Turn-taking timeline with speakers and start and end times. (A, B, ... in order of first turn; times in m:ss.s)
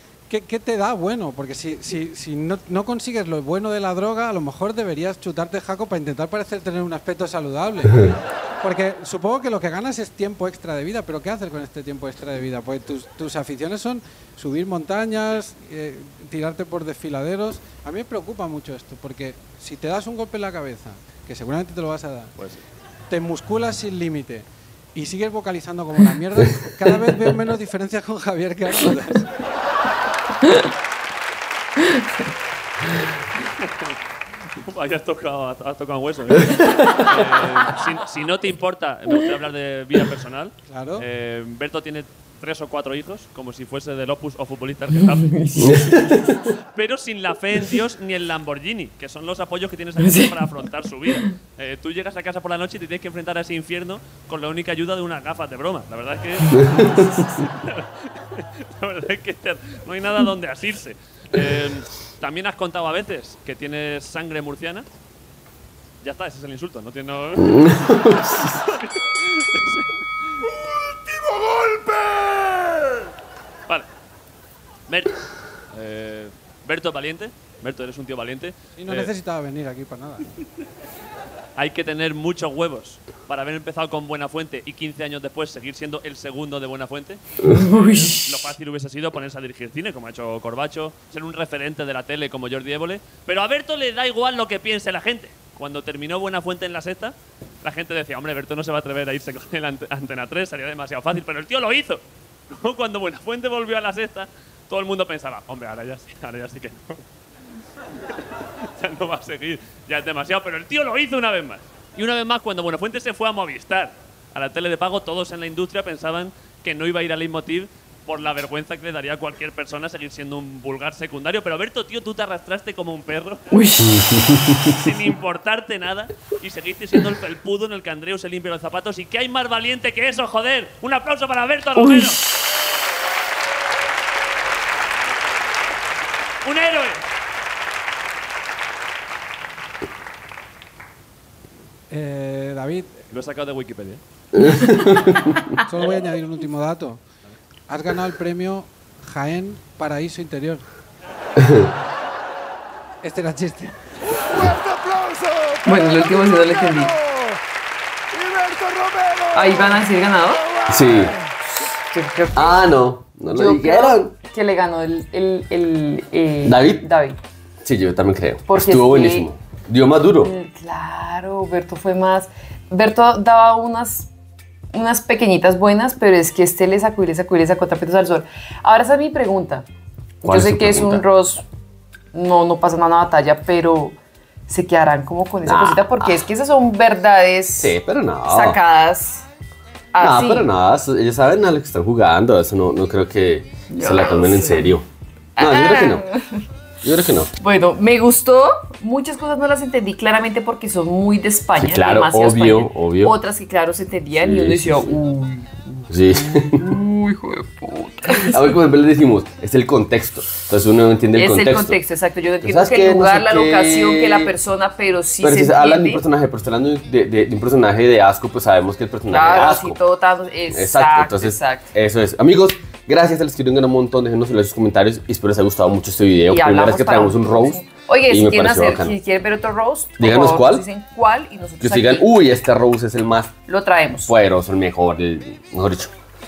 0:00.3-0:22.4 A
0:22.4-0:22.6 B
0:23.1-0:29.3 A
0:31.8-0:32.1 C
0:33.4-0:33.9 B
0:34.6-1:04.9 B
0:40.7-0:41.0 A
0:45.2-0:46.3 C
0:45.6-0:46.3 D
0:50.0-0:50.4 C
0:56.5-0:57.2 D
1:06.0-1:12.8 B
1:07.5-1:08.5 D
1:14.9-1:19.1 B
1:18.8-1:20.3 A
1:21.6-1:47.0 B
1:27.5-1:28.4 C
1:48.2-2:03.6 B
2:03.5-2:04.0 C
2:03.8-2:04.8 D
2:04.6-2:12.2 B
2:11.8-2:12.2 C
2:16.4-2:17.0 B
2:21.9-2:23.1 A
2:23.1-2:24.0 B
2:24.3-2:25.4 D
2:25.6-2:27.0 A
2:27.7-2:30.6 A
2:31.4-2:31.6 D
2:33.0-2:35.5 A
2:35.6-2:37.0 C
2:38.2-2:39.0 A
2:39.3-2:40.5 C
2:40.7-2:41.2 D
2:41.5-2:42.7 C
2:42.3-2:44.1 D
2:43.2-2:47.2 C
2:46.4-2:46.8 D
2:47.6-2:50.3 D
2:48.5-2:49.3 C
2:50.1-2:54.1 C
2:54.7-2:59.6 C
3:00.2-3:01.0 D
3:00.2-3:01.4 C
3:02.1-3:04.0 C
3:04.5-3:07.7 C
3:05.4-3:06.2 D
3:07.6-3:08.6 D
3:08.2-3:09.2 C
3:09.9-3:10.5 C
3:10.0-3:14.8 D
3:13.7-3:14.8 C
3:15.4-3:16.1 D
3:15.4-3:16.4 C
3:16.8-3:17.3 D
3:17.4-3:25.8 C
3:21.5-3:23.1 D
3:24.1-3:25.0 D
3:25.9-3:26.6 D
3:26.4-3:28.6 C
3:28.2-3:31.8 D
3:31.1-3:36.0 C
3:32.4-3:34.3 D
3:35.2-3:39.8 D
3:39.1-3:41.7 C
3:40.5-3:49.0 D
3:46.3-3:52.1 C
3:50.0-3:50.6 D
3:51.6-3:53.3 D
3:53.5-3:54.1 C
3:54.0-3:55.9 D